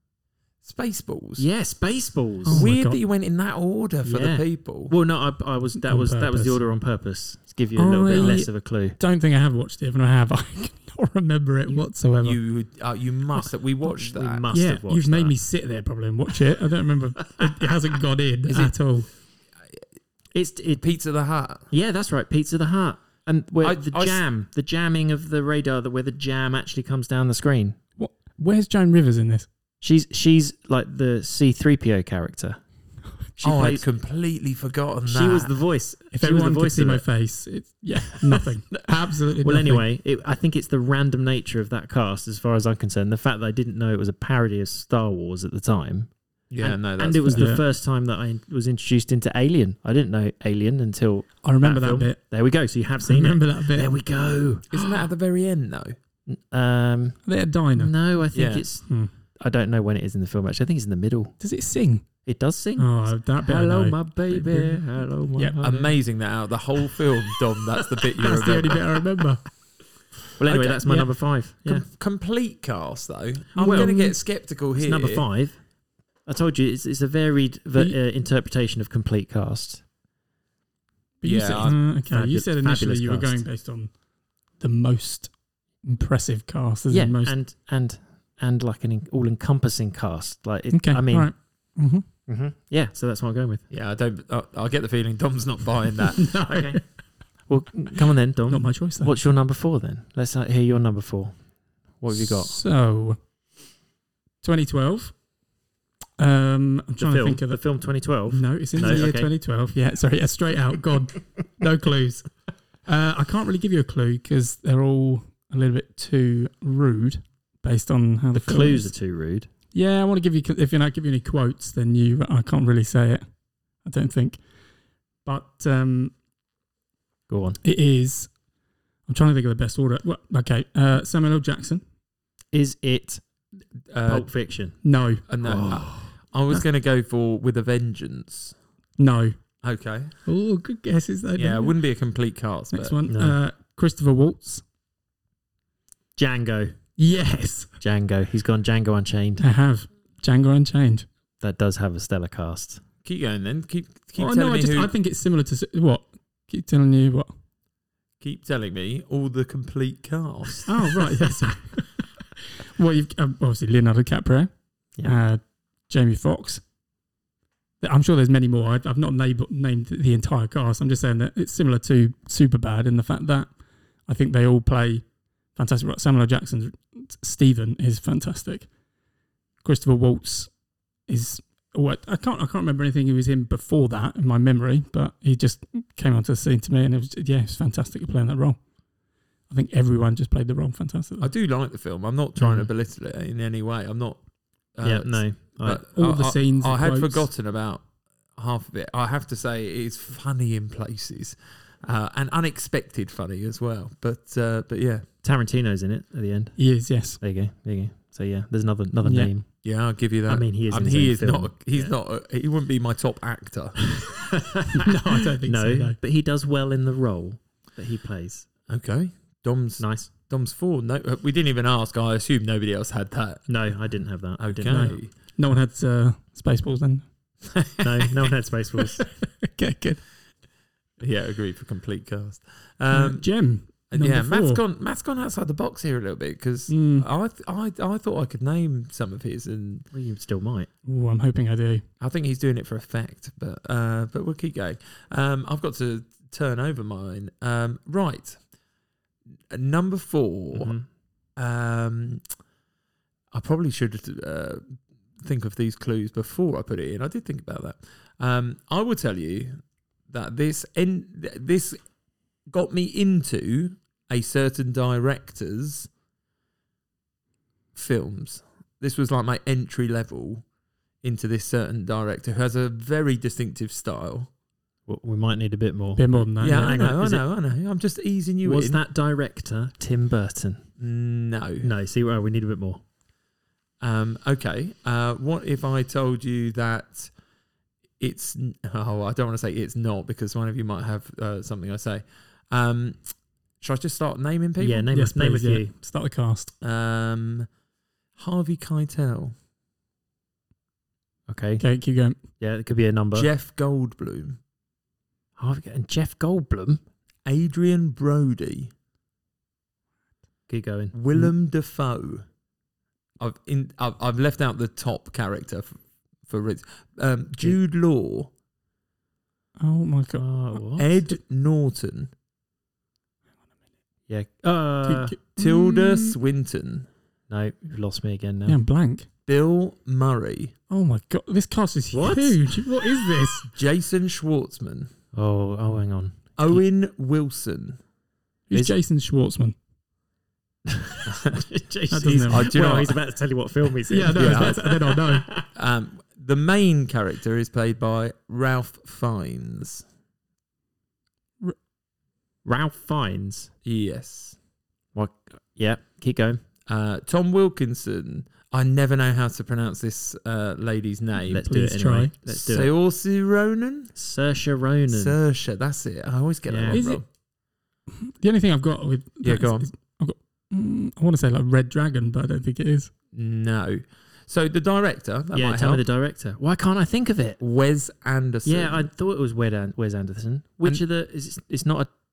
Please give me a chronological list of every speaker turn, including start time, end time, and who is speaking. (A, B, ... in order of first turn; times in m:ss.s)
0:00.6-0:01.5 A
0:01.4-0:02.7 B
0:02.4-0:03.0 C
0:02.5-0:04.9 A
0:04.0-0:09.0 B
0:05.8-0:06.6 C
0:07.8-0:12.4 C
0:12.2-0:14.4 A
0:13.8-0:15.4 B
0:14.5-0:19.1 C
0:18.5-0:18.7 A
0:20.3-0:20.8 B
0:20.8-0:21.7 A
0:21.7-0:27.8 B
0:23.6-0:24.2 A
0:28.0-0:29.5 C
0:29.8-0:32.6 B
0:33.4-0:33.8 B
0:33.4-0:35.5 A
0:35.0-0:37.0 B
0:36.1-0:39.8 C
0:39.4-0:54.6 B
0:46.5-0:47.5 A
0:47.2-0:47.6 C
0:51.4-0:52.2 C
0:53.0-0:53.9 C
0:54.7-0:55.9 A
0:56.2-0:57.2 B
0:57.3-0:57.9 C
0:57.7-1:01.3 B
0:58.3-0:58.6 A
1:01.4-1:02.0 C
1:02.2-1:06.0 B
1:02.8-1:05.6 C
1:05.6-1:08.8 A
1:08.2-1:09.4 C
1:10.4-1:11.8 B
1:10.4-1:11.1 A
1:11.6-1:15.2 A
1:13.5-1:14.2 B
1:13.6-1:14.0 C
1:14.7-1:15.6 B
1:16.2-1:19.8 B
1:21.2-1:23.9 C
1:21.2-1:21.8 A
1:22.1-1:23.4 B
1:24.6-1:25.3 C
1:25.8-1:27.3 C
1:26.9-1:31.3 B
1:30.7-1:32.0 C
1:32.3-1:33.6 B
1:33.7-1:36.3 A
1:36.2-1:36.8 C
1:36.4-1:36.8 B
1:37.5-1:41.3 B
1:38.5-1:39.1 C
1:42.0-1:42.5 B
1:42.1-1:43.2 C
1:44.4-1:45.1 C
1:46.2-1:47.6 C
1:47.0-1:49.3 B
1:48.3-1:52.3 C
1:52.8-1:58.9 C
1:58.3-1:59.5 B
1:59.7-2:03.2 C
2:03.8-2:04.4 C
2:05.2-2:06.1 C
2:07.3-2:07.6 B
2:07.6-2:08.3 C
2:09.1-2:11.8 C
2:12.5-2:13.2 B
2:13.9-2:14.3 A
2:14.0-2:14.8 B
2:14.8-2:15.2 C
2:15.3-2:18.6 A
2:15.4-2:16.0 B
2:19.0-2:19.4 C
2:19.6-2:20.1 A
2:20.2-2:21.8 C
2:21.3-2:22.9 A
2:22.7-2:24.6 C
2:23.0-2:23.4 B
2:26.2-2:26.8 B
2:27.0-2:27.7 C
2:27.8-2:29.4 B
2:29.4-2:31.0 C
2:31.4-2:32.8 B
2:33.0-2:34.9 A
2:34.2-2:37.3 C
2:38.2-2:40.7 A
2:40.6-2:42.0 C
2:42.8-2:44.5 C
2:45.0-2:46.6 C
2:47.8-2:53.5 C
2:54.1-2:58.7 C
2:59.6-3:00.5 C
3:01.1-3:08.6 C
3:09.5-3:11.3 C
3:11.2-3:14.2 A
3:12.4-3:12.7 B
3:14.7-3:25.0 A
3:14.8-3:15.8 B
3:15.9-3:17.3 C
3:25.2-3:26.6 B
3:26.6-3:27.2 C
3:27.2-3:29.5 B
3:29.0-3:29.3 C
3:29.6-3:34.0 A
3:30.3-3:31.9 B
3:34.0-3:38.5 B
3:34.7-3:36.0 C
3:38.7-3:43.5 A
3:39.8-3:40.1 B
3:43.5-3:45.0 B
3:44.4-3:45.1 A
3:44.6-3:47.0 C
3:47.8-3:49.0 B
3:48.8-3:50.0 C
3:51.0-3:53.3 A
3:52.9-3:54.6 C
3:53.9-3:59.9 A
3:56.7-3:57.0 C
3:59.9-4:00.7 B
4:00.8-4:01.8 C
4:02.0-4:08.4 A
4:09.5-4:10.7 A
4:10.5-4:10.8 B
4:11.4-4:12.2 A
4:13.3-4:21.8 A
4:22.5-4:25.9 A
4:27.7-4:30.4 A
4:31.0-4:34.3 A
4:34.9-4:37.2 B
4:36.0-4:36.7 C
4:36.4-4:38.8 A
4:38.4-4:40.6 B
4:40.8-4:41.7 A
4:41.6-4:42.8 B
4:43.8-4:47.1 A
4:48.0-4:53.0 A
4:53.6-4:54.9 A
4:54.6-4:55.7 B
4:54.9-4:56.5 C
4:56.6-4:57.5 A
4:58.2-4:59.3 A
5:01.3-5:01.6 B
5:01.6-5:02.2 C
5:02.4-5:03.3 B
5:03.1-5:04.4 A
5:05.4-5:06.8 B
5:07.2-5:08.7 A
5:10.5-5:11.3 B
5:10.9-5:12.2 A
5:13.2-5:18.3 A
5:19.6-5:20.2 C
5:20.1-5:20.9 B
5:20.8-5:22.1 A
5:24.1-5:25.2 B
5:24.8-5:26.1 C
5:25.4-5:26.9 A
5:27.3-5:28.6 B
5:28.4-5:29.1 C
5:29.2-5:30.5 A
5:30.7-5:33.5 C
5:31.9-5:33.4 B
5:33.5-5:34.9 A
5:35.1-5:36.6 B
5:36.4-5:37.8 A
5:38.5-5:39.6 C
5:40.7-5:45.5 B
5:41.9-5:42.5 C
5:42.3-5:43.0 A
5:43.9-5:45.3 C
5:44.1-5:44.6 A
5:45.5-5:49.8 A
5:52.4-5:53.5 B
5:53.6-5:54.4 A
5:54.9-5:56.4 B
5:56.7-6:01.4 A
6:01.3-6:02.7 B
6:01.4-6:02.1 C
6:02.3-6:03.9 A
6:03.9-6:05.2 B
6:04.9-6:07.0 A
6:06.5-6:06.8 B
6:06.7-6:07.0 C
6:08.0-6:12.9 C
6:09.2-6:09.7 A
6:13.1-6:15.8 A
6:15.3-6:17.4 B
6:17.4-6:18.9 A
6:18.4-6:21.9 B